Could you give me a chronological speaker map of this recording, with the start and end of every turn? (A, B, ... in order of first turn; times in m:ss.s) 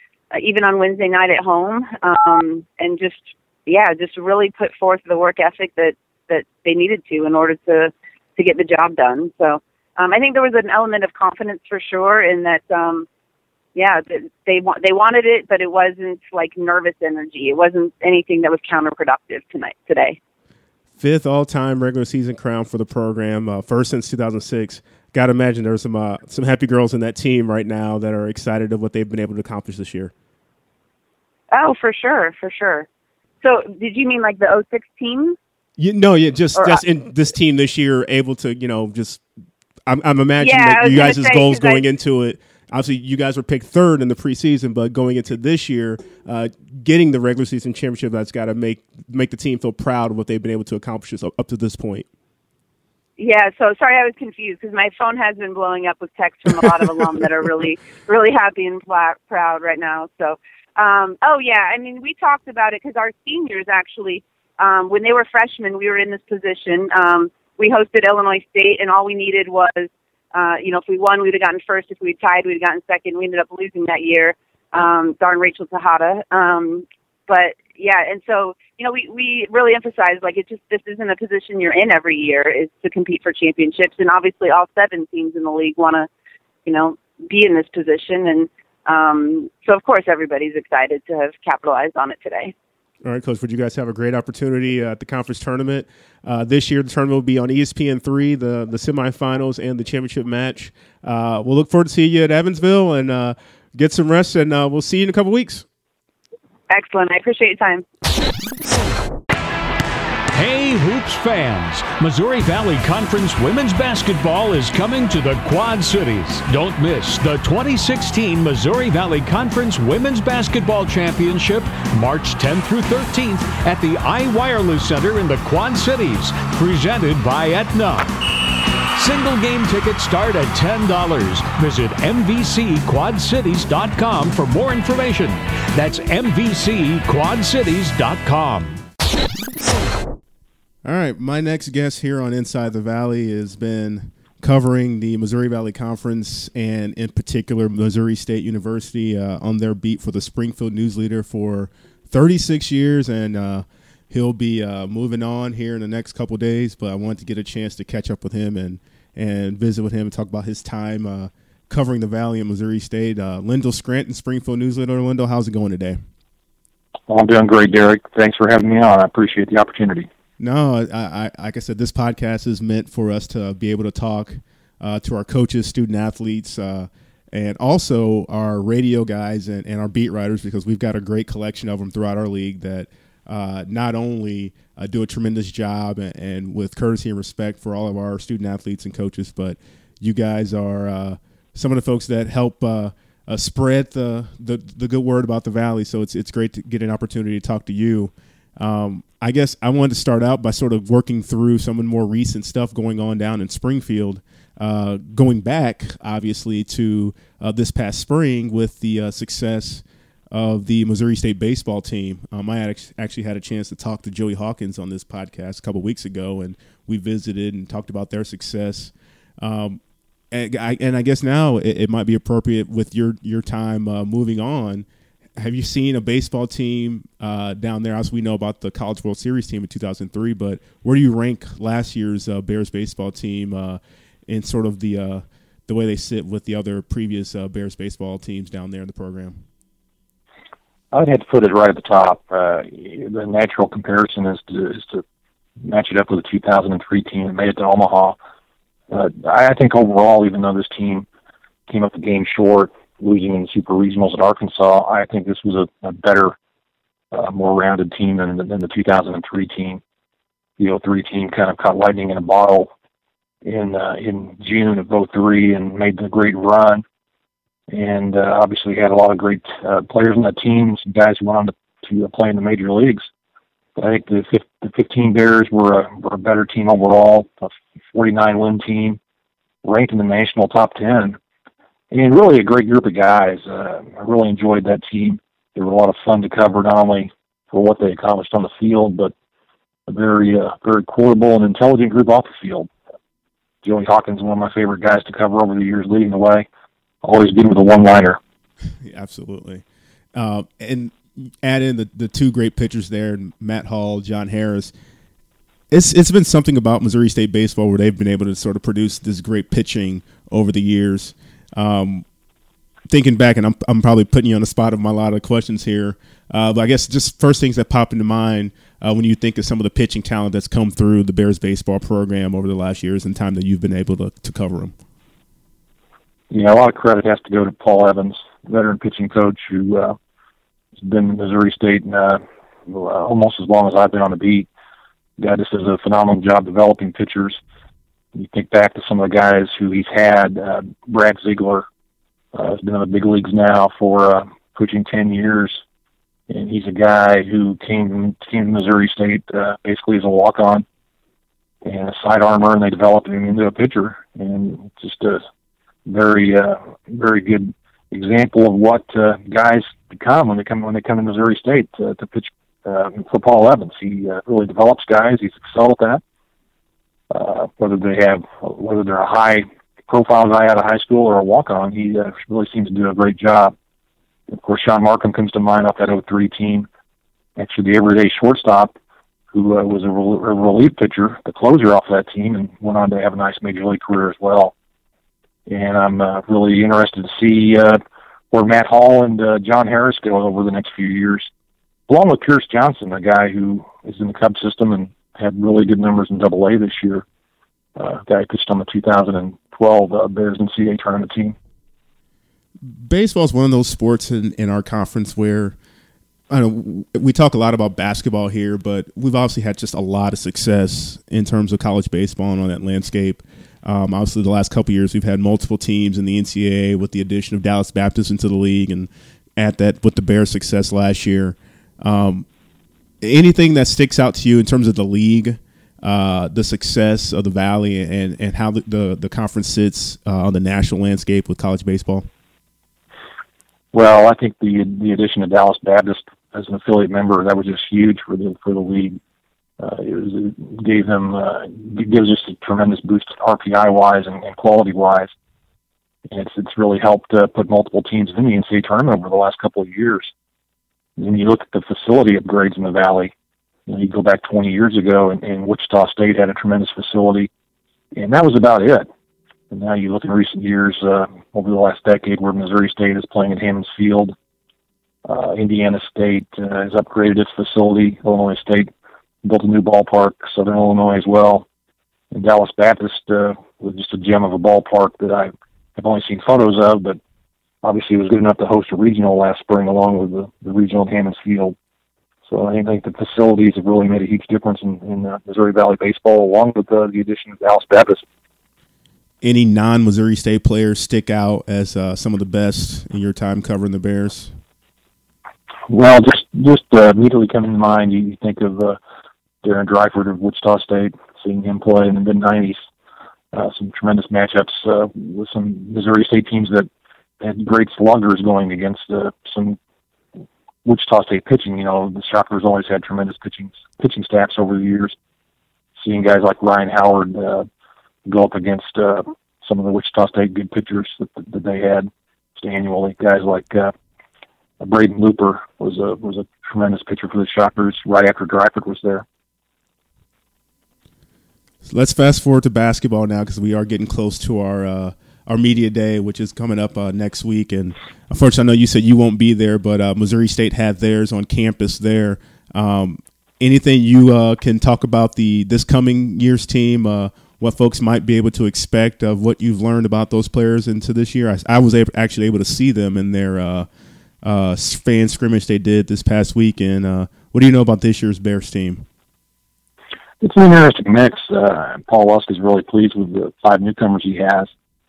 0:00.3-0:13.1 A
0:13.7-0:20.2 A
0:21.0-0:30.1 B
0:31.5-0:32.9 A
0:33.4-0:35.4 A
0:35.8-0:39.2 B
0:36.5-0:36.8 A
0:39.8-0:52.1 B
0:40.4-0:41.8 A
0:53.2-1:26.1 A
1:26.6-1:32.5 A
1:33.0-1:45.6 B
1:46.7-1:47.8 A
1:50.3-2:08.1 C
2:09.0-2:18.8 C
2:20.8-2:46.0 B
2:47.1-2:50.1 D
2:50.4-3:39.8 B
3:40.3-3:44.8 B
3:45.4-3:59.4 B
4:00.9-4:05.0 D
4:05.6-4:08.2 D
4:08.9-4:11.0 D
4:11.7-4:16.4 D
4:17.1-4:19.8 D
4:20.6-4:22.7 D
4:23.4-4:26.8 D
4:27.7-4:33.1 D
4:33.8-4:39.0 D
4:39.6-4:41.2 D
4:41.9-4:49.1 D
4:49.9-4:52.7 D
4:53.6-4:56.4 D
4:57.0-4:58.2 D
4:58.8-5:04.7 B
5:05.7-5:12.0 B
5:12.9-5:24.7 B
5:26.3-5:30.0 D
5:30.8-5:34.5 D
5:35.2-5:37.4 D
5:38.1-5:41.6 D
5:42.3-5:45.6 D
5:46.3-5:50.6 D
5:51.6-5:55.2 D
5:55.8-6:06.0 D
6:07.1-6:13.5 D
6:14.3-6:16.7 D
6:17.4-6:18.8 D
6:19.3-6:24.5 D
6:25.5-6:27.8 D
6:28.3-6:31.3 D
6:31.9-6:37.0 D
6:37.8-6:41.3 D
6:42.6-6:45.6 B
6:46.3-7:02.3 B
7:03.0-7:12.1 B
7:13.7-7:19.0 D
7:19.6-7:25.1 D
7:26.1-7:30.1 D
7:31.0-7:33.1 D
7:33.7-7:37.3 D
7:37.9-7:38.9 D
7:39.5-7:44.1 D
7:45.0-7:48.7 D
7:49.2-7:51.4 D
7:52.1-7:57.0 D
7:57.6-8:01.6 D
8:02.3-8:08.0 D
8:09.2-8:14.4 B
8:15.7-8:18.8 D
8:19.4-8:22.6 D
8:23.3-8:26.7 D
8:27.2-8:29.6 D
8:30.6-8:34.9 D
8:35.8-8:37.5 D
8:38.0-8:43.7 D
8:44.6-8:49.0 D
8:51.6-9:13.7 B
9:14.2-9:18.8 B
9:20.2-9:24.5 D